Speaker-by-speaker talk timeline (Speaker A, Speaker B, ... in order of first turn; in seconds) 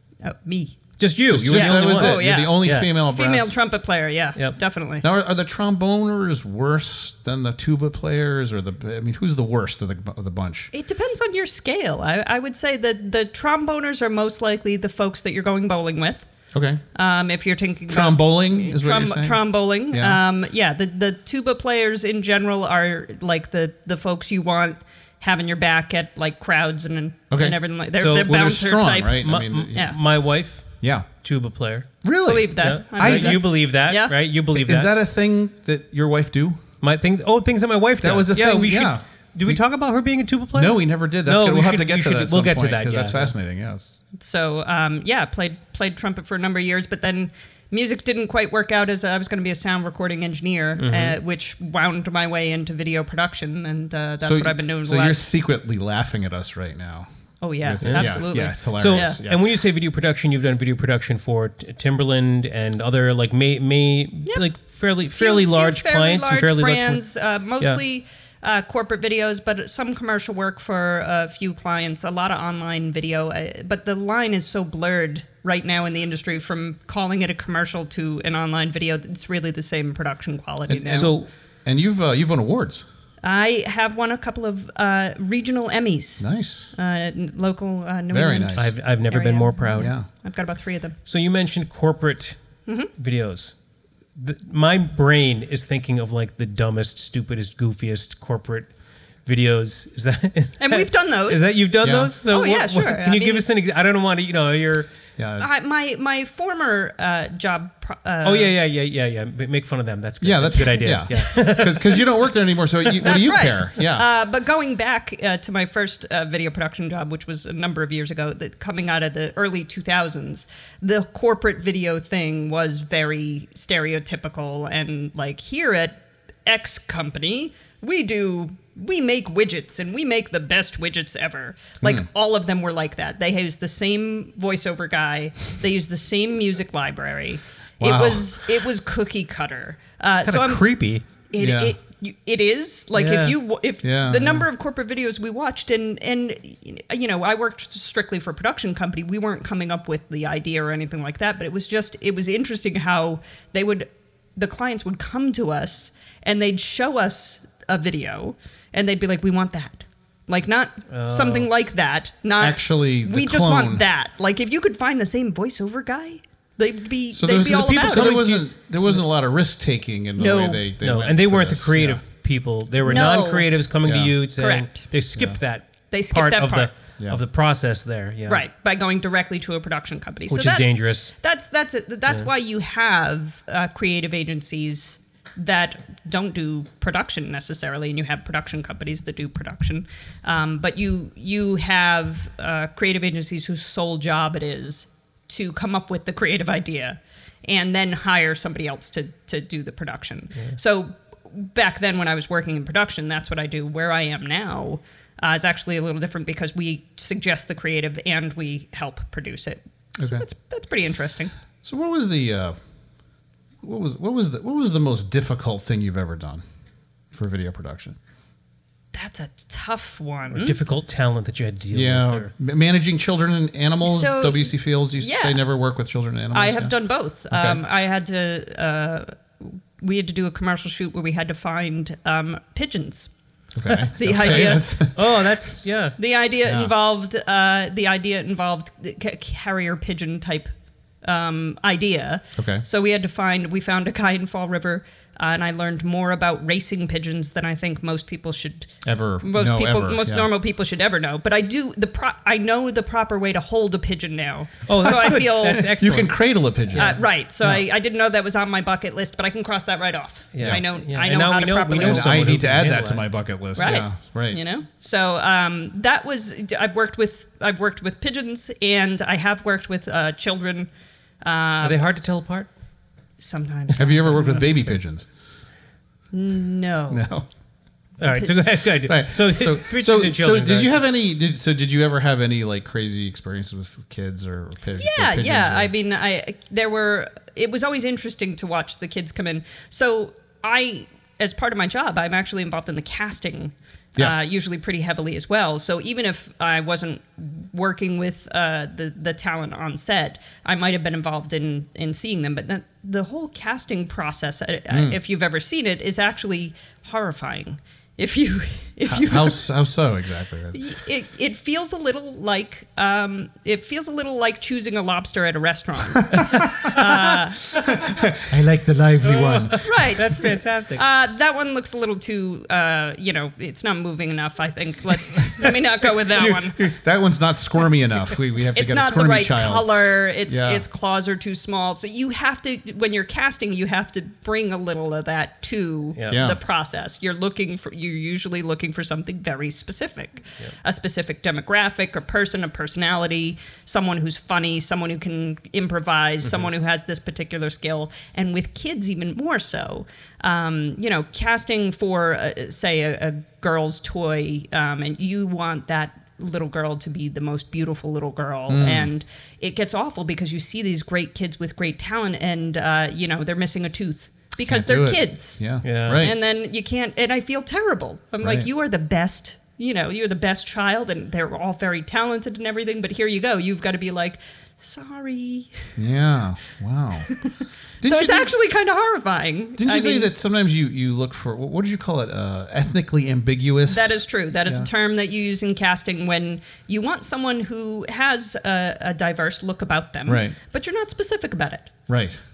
Speaker A: 0.2-0.8, 1.4-5.0, 10.7-16.3, 16.9-29.2, 32.2-34.1, 44.2-55.2, 57.4-59.2, 65.1-81.2, 83.2-91.0, 100.6-101.6, 102.3-103.5, 105.4-108.5, 110.6-111.4, 113.0-140.7, 141.3-168.4, 170.2-170.6, 172.8-173.5, 174.4-174.9, 175.9-176.7, 178.3-211.3, 218.9-220.6, 223.8-225.4, 226.3-233.1, 233.7-234.7, 236.0-240.5, 241.0-255.7, 256.8-262.3, 263.6-270.7, 271.2-271.8, 273.2-274.5, 276.1-277.1, 278.1-278.4, 284.8-309.5, 310.5-317.6, 319.6-326.7, 328.5-375.8, 377.1-380.1, 383.7-391.7
Speaker B: 1.0-3.1, 28.0-28.5, 29.2-31.9, 32.6-34.9, 36.8-43.3, 50.8-51.2, 57.8-67.0, 80.9-81.3, 88.5-89.9, 91.1-92.4, 93.0-93.6, 94.2-98.7, 99.3-104.9, 108.2-112.1, 112.8-113.1, 140.1-141.0, 143.0-143.4, 160.9-161.5, 167.8-168.4, 170.8-178.5, 180.3-181.1, 220.3-222.3, 233.9-236.0, 254.7-257.6, 260.3-263.1, 271.6-272.5, 278.0-280.8, 316.3-316.7, 319.0-320.8, 336.0-336.2, 365.6-366.1
Speaker C: 1.3-3.6, 5.0-10.7, 16.5-16.8, 17.9-20.2, 27.3-27.6, 28.2-30.0, 30.8-31.1, 32.0-33.5, 34.5-36.6, 38.0-39.6, 40.5-44.0, 54.2-57.1, 57.6-59.4, 80.7-82.8, 86.2-86.7, 88.1-88.8, 89.7-90.1, 101.8-102.1, 105.2-105.5, 110.2-114.1, 137.8-138.5, 141.4-141.8, 143.8-144.5, 162.4-163.9, 167.1-172.0, 173.8-174.2, 210.0-210.2, 211.6-212.6, 213.6-216.4, 217.1-218.0, 221.7-226.7, 227.3-227.6, 233.6-235.2, 236.4-236.7, 242.4-242.7, 248.8-250.3, 254.8-257.6, 261.8-264.4, 273.8-275.1, 276.9-277.3, 278.8-285.7, 304.7-305.0, 308.9-310.6, 316.1-316.9, 317.5-319.6, 325.2-325.5, 326.1-330.6, 336.1-336.4, 358.5-358.9, 364.4-366.2, 368.2-368.5, 375.8-377.2, 377.8-378.4, 379.6-384.7, 390.1-390.4, 391.9-392.2